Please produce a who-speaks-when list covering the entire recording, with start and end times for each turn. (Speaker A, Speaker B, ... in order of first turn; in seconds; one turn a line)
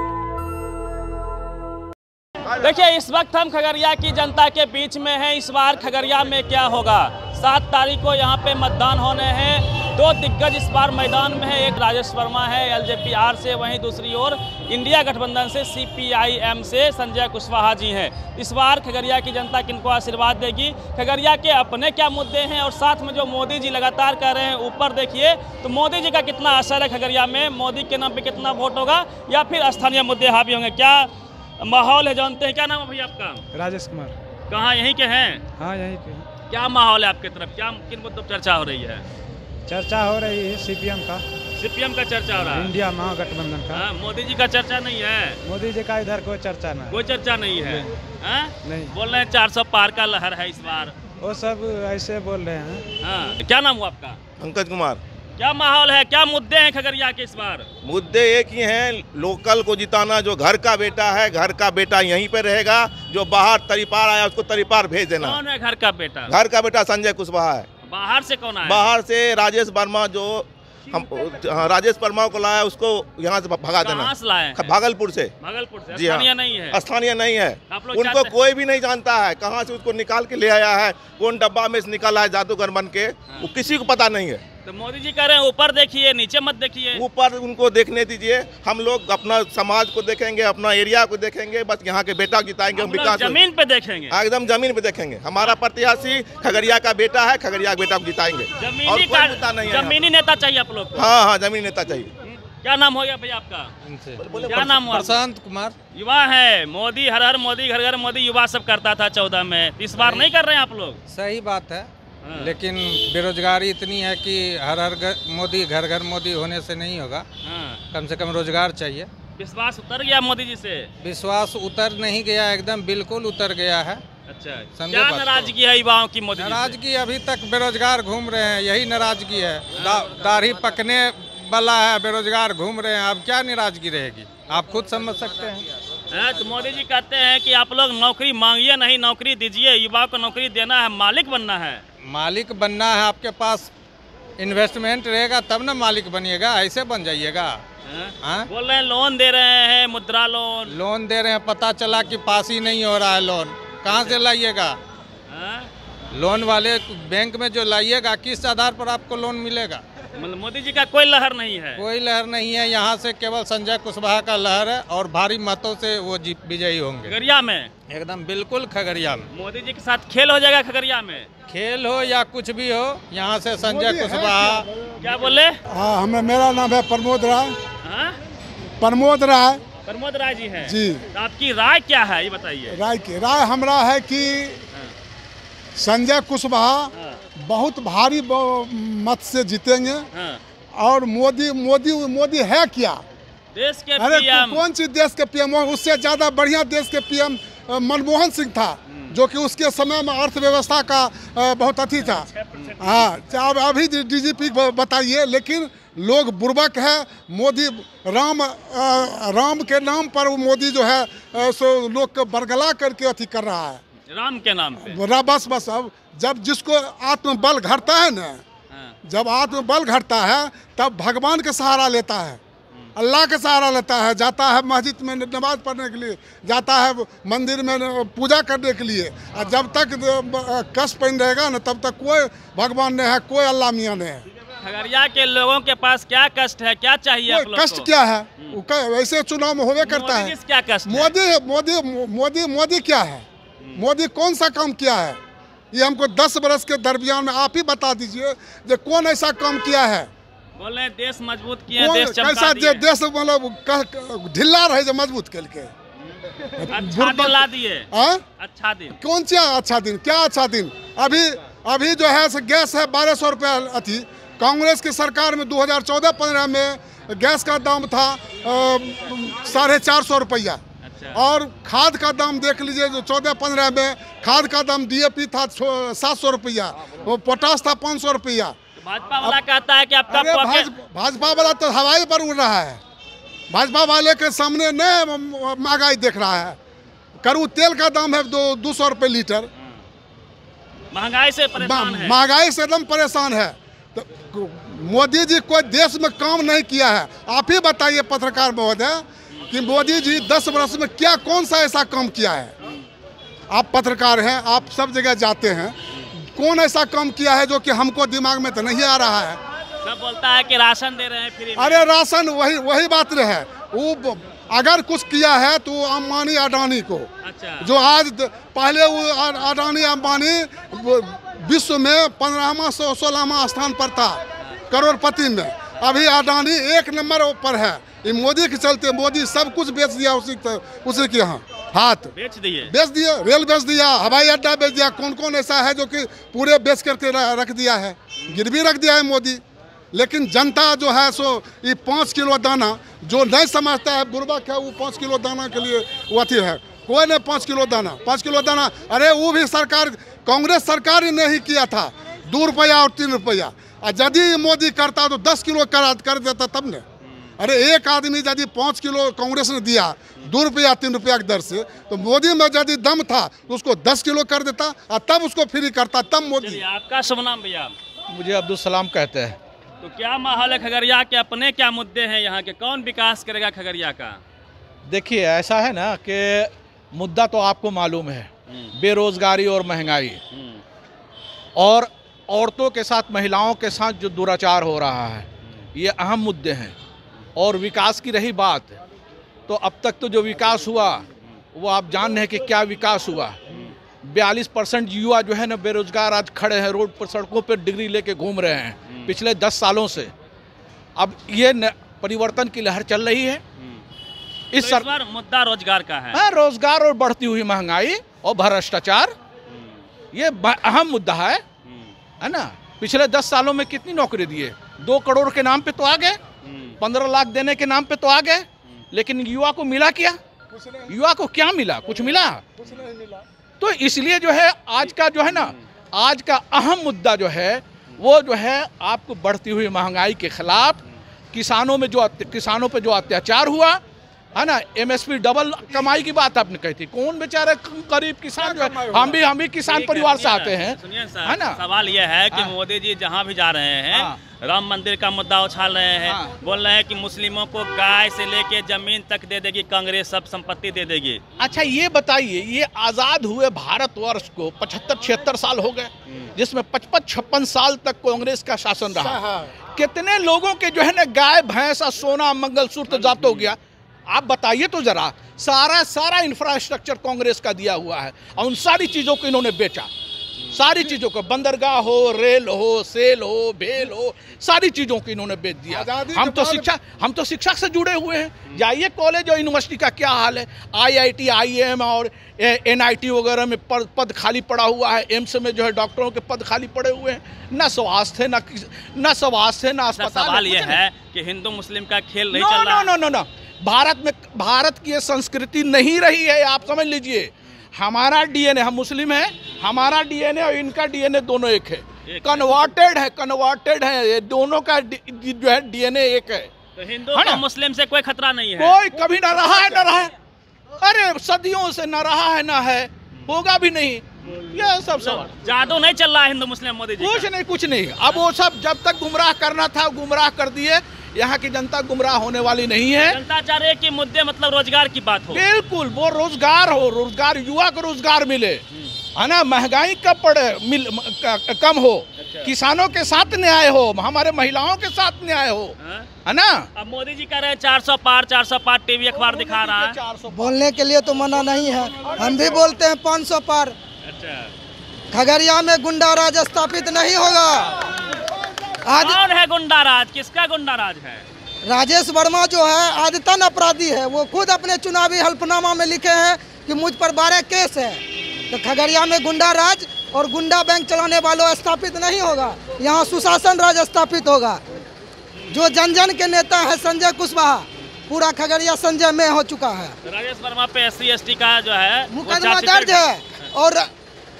Speaker A: 2.6-31.1
Speaker A: 31.6-33.4
Speaker B: 33.5-34.2
Speaker A: 34.5-35.4
Speaker B: 35.6-36.3
Speaker A: 36.5-39.0
Speaker B: 39.7-41.2
Speaker A: 41.6-42.8
Speaker B: 42.6-43.8
Speaker A: 43.7-45.4
Speaker B: 45.5-46.9
Speaker A: 46.9-51.0
Speaker B: 48.6-48.9
Speaker B: 51.2-52.9
Speaker A: 53.0-54.2
Speaker C: 54.4-55.0
Speaker A: 55.4-57.7
Speaker C: 57.8-65.4
Speaker A: 65.2-66.4
Speaker C: 66.3-67.7
Speaker A: 67.8-68.9
Speaker C: 68.7-75.3
Speaker A: 73.8-74.7
Speaker A: 75.4-76.8
Speaker C: 76.0-84.4
Speaker A: 77.7-78.4
Speaker A: 84.7-87.0
Speaker C: 87.0-93.4
Speaker A: 92.7-94.2
Speaker C: 94.1-100.0
Speaker A: 98.6-101.1
Speaker C: 101.0-102.1
Speaker A: 102.2-103.7
Speaker D: 103.8-105.8
Speaker C: 104.2-104.8
Speaker A: 104.4-105.1
Speaker A: 105.9-111.0
Speaker D: 110.0-110.3
Speaker D: 111.1-117.3
Speaker A: 112.2-112.5
Speaker A: 117.4-117.8
Speaker D: 117.9-119.1
Speaker A: 119.4-120.9
Speaker D: 121.0-124.0
Speaker A: 124.3-126.8
Speaker D: 124.8-125.5
Speaker D: 126.3-135.6
Speaker A: 136.1-141.8
Speaker D: 142.1-143.7
Speaker D: 144.4-147.6
Speaker A: 147.9-150.7
Speaker D: 148.2-148.5
Speaker D: 150.7-154.8
Speaker A: 155.3-155.7
Speaker D: 156.1-159.8
Speaker A: 160.2-161.8
Speaker D: 161.8-167.1
Speaker A: 167.1-167.7
Speaker D: 167.9-169.3
Speaker A: 169.3-171.3
Speaker D: 171.5-174.7
Speaker E: 173.6-174.7
Speaker A: 175.0-175.6
Speaker E: 175.7-177.6
Speaker A: 177.8-178.2
Speaker E: 178.8-179.6
Speaker A: 179.8-182.8
Speaker E: 180.6-181.1
Speaker E: 182.7-184.6
Speaker E: 185.8-190.1
Speaker A: 190.1-190.4
Speaker E: 190.8-193.0
Speaker A: 193.6-194.6
Speaker E: 194.0-202.3
Speaker A: 202.0-203.2
Speaker E: 202.8-213.8
Speaker A: 214.1-215.0
Speaker E: 214.8-218.4
Speaker A: 218.7-218.9
Speaker E: 219.1-222.4
Speaker E: 223.0-234.2
Speaker A: 234.6-238.6
Speaker E: 237.3-240.3
Speaker A: 239.8-241.1
Speaker E: 240.9-245.2
Speaker E: 245.7-250.1
Speaker A: 250.6-252.8
Speaker E: 251.7-255.7
Speaker E: 256.6-258.2
Speaker A: 256.7-259.0
Speaker E: 259.0-270.6
Speaker A: 270.8-271.2
Speaker E: 271.1-278.6
Speaker A: 278.8-280.7
Speaker E: 280.1-282.8
Speaker E: 283.5-286.6
Speaker E: 287.2-289.5
Speaker A: 290.9-292.2
Speaker E: 291.6-302.5
Speaker E: 303.5-309.4
Speaker A: 309.8-311.9
Speaker E: 311.6-317.1
Speaker A: 317.2-317.7
Speaker E: 317.6-332.1
Speaker A: 332.1-332.7
Speaker E: 332.7-339.4
Speaker E: 339.9-356.8
Speaker E: 357.4-366.6
Speaker A: 366.4-367.7
Speaker F: 368.1-369.4
Speaker A: 369.8-374.2
Speaker F: 374.9-380.2
Speaker A: 380.3-380.6
Speaker F: 381.6-386.8
Speaker F: 387.4-388.8
Speaker F: 389.5-393.4
Speaker F: 394.0-400.1
Speaker A: 398.9-399.1
Speaker F: 401.0-403.4
Speaker A: 403.6-403.8
Speaker F: 404.5-404.9
Speaker A: 404.6-406.2
Speaker F: 406.1-409.1
Speaker A: 409.5-409.8
Speaker F: 410.1-411.4
Speaker A: 411.7-411.9
Speaker F: 412.2-416.2
Speaker A: 416.4-416.8
Speaker F: 416.8-420.2
Speaker E: 420.5-420.9
Speaker F: 420.9-422.5
Speaker E: 422.6-423.2
Speaker F: 423.6-430.8
Speaker A: 424.9-425.6
Speaker F: 431.3-433.8
Speaker F: 434.4-441.6
Speaker A: 439.7-451.2
Speaker F: 443.9-444.2
Speaker F: 446.1-446.3
Speaker F: 451.4-459.2
Speaker E: 459.0-459.5
Speaker F: 459.7-469.9
Speaker A: 462.9-463.5
Speaker F: 470.5-490.8
Speaker E: 475.7-476.7
Speaker A: 489.9-492.9
Speaker F: 492.3-506.5
Speaker A: 502.1-502.6
Speaker A: 506.8-510.1
Speaker F: 507.1-507.4
Speaker F: 508.6-510.1
Speaker F: 510.8-515.3
Speaker A: 514.2-517.3
Speaker F: 517.0-523.2
Speaker A: 523.0-525.5
Speaker F: 525.3-528.6
Speaker F: 529.1-536.7
Speaker A: 532.2-532.5
Speaker A: 535.8-536.1
Speaker A: 536.8-540.0
Speaker F: 539.1-540.6
Speaker G: 540.3-543.8
Speaker A: 544.0-544.5
Speaker G: 545.1-547.8
Speaker G: 548.9-549.2
Speaker A: 549.0-551.2
Speaker G: 551.6-564.6
Speaker G: 565.5-570.0
Speaker A: 570.1-573.4
Speaker G: 572.1-573.9